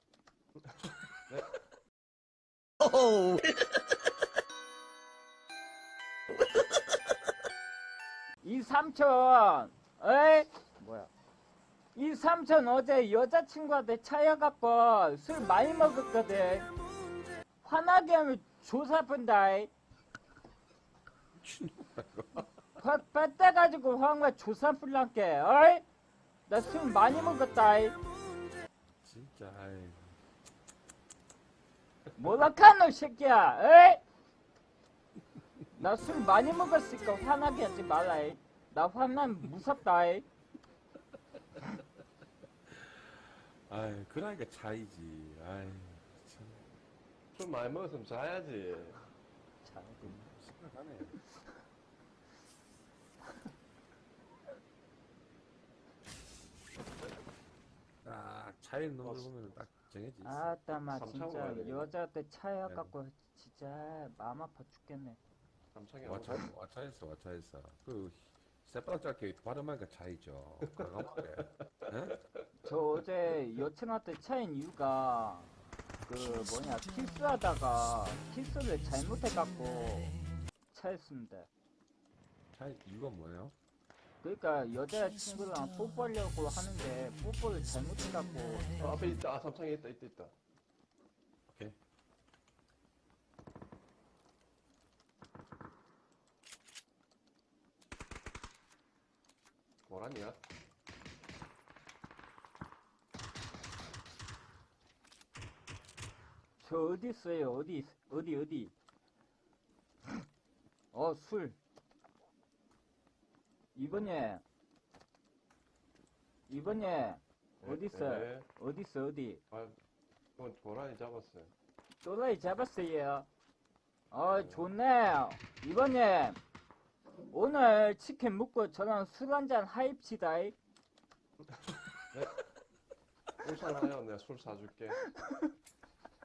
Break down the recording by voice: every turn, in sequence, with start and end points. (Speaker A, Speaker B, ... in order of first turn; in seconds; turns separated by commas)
Speaker A: 1.3-1.5, Speaker B: 8.4-11.1, Speaker B: 11.9-16.7, Speaker B: 17.6-19.7, Speaker C: 21.3-22.5, Speaker B: 22.8-25.9, Speaker B: 26.5-28.0, Speaker C: 29.0-30.2, Speaker B: 32.1-34.0, Speaker B: 35.8-40.2, Speaker C: 42.7-46.6, Speaker A: 47.3-49.0, Speaker B: 49.6-50.3, Speaker C: 50.0-51.2, Speaker C: 58.0-60.5, Speaker B: 60.2-65.2, Speaker A: 60.9-61.9, Speaker C: 62.6-62.9, Speaker A: 65.7-66.5, Speaker C: 66.0-72.2, Speaker A: 70.7-71.2, Speaker B: 72.6-75.5, Speaker B: 76.0-80.2, Speaker B: 80.7-81.5, Speaker C: 82.5-83.5, Speaker B: 84.2-89.1, Speaker A: 88.8-90.3, Speaker C: 91.5-91.8, Speaker A: 99.8-100.4, Speaker B: 106.6-108.7, Speaker B: 110.9-111.6, Speaker B: 113.7-114.4, Speaker B: 116.5-119.4, Speaker A: 117.6-118.5, Speaker A: 119.5-119.8, Speaker A: 120.4-121.5, Speaker B: 122.0-123.3, Speaker B: 124.1-126.4, Speaker A: 124.2-124.7, Speaker B: 127.3-130.6, Speaker A: 132.1-132.4, Speaker A: 133.4-135.0, Speaker B: 135.0-135.5